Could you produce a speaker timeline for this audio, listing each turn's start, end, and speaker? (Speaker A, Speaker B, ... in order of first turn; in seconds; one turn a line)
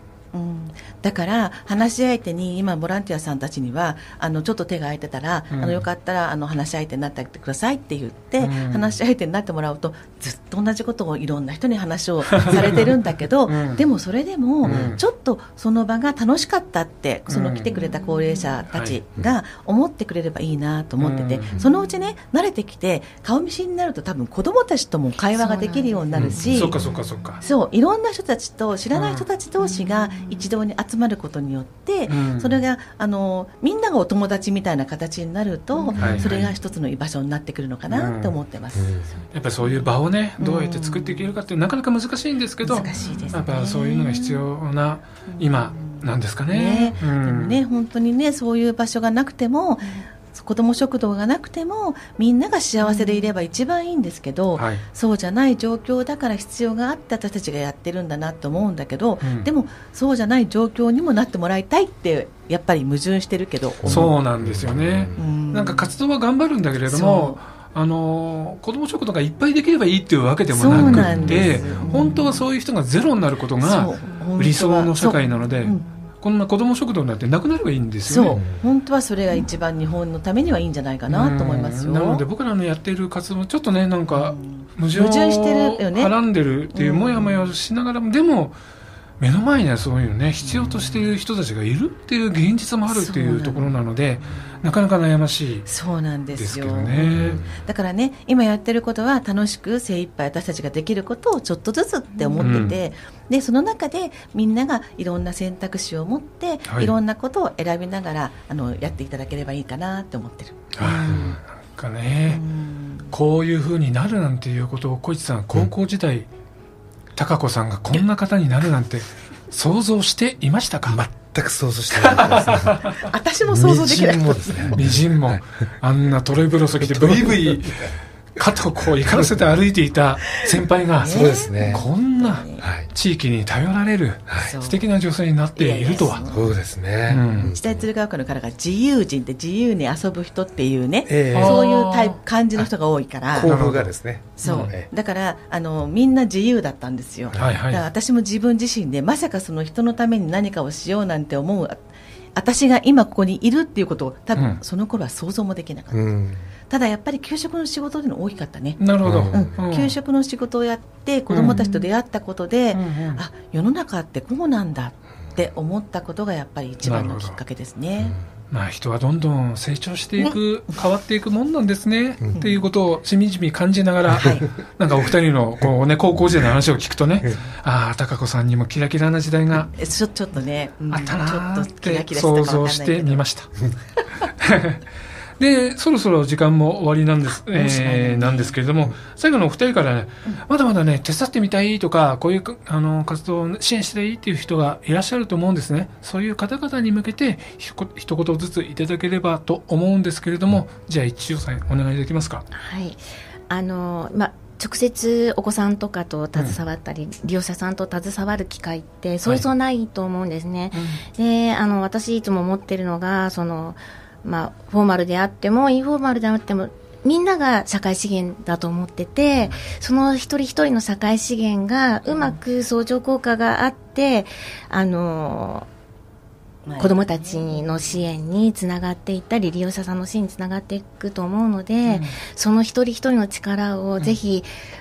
Speaker A: 0.3-26.8
Speaker B: 5.5-5.8
Speaker B: 8.4-8.9
Speaker B: 12.3-12.8
Speaker B: 13.5-13.8
Speaker B: 14.6-15.0
Speaker C: 14.7-14.9
Speaker B: 17.3-17.7
Speaker D: 17.7-18.5
Speaker B: 21.0-21.6
Speaker D: 25.3-26.4
Speaker B: 26.1-27.4
Speaker C: 26.2-26.7
Speaker A: 27.4-39.8
Speaker B: 28.9-29.2
Speaker D: 29.6-30.5
Speaker B: 32.1-32.6
Speaker D: 35.7-36.2
Speaker B: 36.0-36.5
Speaker C: 36.0-36.3
Speaker B: 37.9-38.3
Speaker C: 38.8-39.1
Speaker B: 39.3-47.6
Speaker A: 40.4-41.3
Speaker A: 42.6-44.4
Speaker D: 42.8-43.4
Speaker A: 45.3-64.1
Speaker D: 52.8-53.3
Speaker B: 54.5-54.8
Speaker B: 59.2-59.5
Speaker C: 63.8-65.2
Speaker B: 63.8-78.4
Speaker A: 65.2-65.9
Speaker A: 66.9-67.4
Speaker A: 70.5-72.4
Speaker C: 70.7-71.8
Speaker A: 73.6-75.9
Speaker A: 78.0-82.2
Speaker C: 78.3-78.6
Speaker B: 81.1-88.6
Speaker A: 84.1-86.1
Speaker A: 86.7-87.5
Speaker B: 89.2-95.7
Speaker A: 90.4-91.1
Speaker A: 92.9-94.6
Speaker A: 95.7-111.3
Speaker B: 96.3-97.4
Speaker C: 97.1-97.5
Speaker B: 102.4-102.8
Speaker B: 106.7-106.9
Speaker B: 110.8-112.4
Speaker C: 111.1-111.4
Speaker A: 112.3-113.1
Speaker B: 113.1-116.3
Speaker B: 117.1-121.0
Speaker C: 120.8-122.8
Speaker B: 121.9-123.0
Speaker A: 122.9-124.8
Speaker C: 123.5-125.4
Speaker B: 124.7-136.2
Speaker C: 126.8-127.9
Speaker C: 129.0-129.3
Speaker A: 131.0-132.6
Speaker C: 131.1-131.8
Speaker C: 132.6-132.9
Speaker A: 134.4-134.8
Speaker A: 135.6-136.5
Speaker C: 136.3-137.9
Speaker B: 137.1-137.5
Speaker A: 137.5-143.5
Speaker C: 141.1-141.6
Speaker B: 141.3-142.2
Speaker C: 143.3-144.9
Speaker B: 143.4-143.9
Speaker A: 144.4-151.8
Speaker B: 144.4-144.7
Speaker B: 147.3-147.8
Speaker A: 152.3-156.1
Speaker C: 155.9-156.4
Speaker A: 156.7-168.2
Speaker B: 158.8-159.9
Speaker C: 159.0-159.5
Speaker B: 161.3-161.6
Speaker D: 161.5-161.8
Speaker B: 162.7-163.2
Speaker B: 166.8-167.4
Speaker B: 168.5-179.7
Speaker A: 172.4-172.6
Speaker A: 174.2-174.5
Speaker A: 179.8-183.2
Speaker B: 180.9-183.5
Speaker B: 184.3-184.8
Speaker B: 185.4-202.4
Speaker A: 187.5-188.6
Speaker D: 202.5-225.7
Speaker B: 210.7-211.0
Speaker A: 226.7-228.0
Speaker D: 226.8-234.5
Speaker B: 231.8-232.1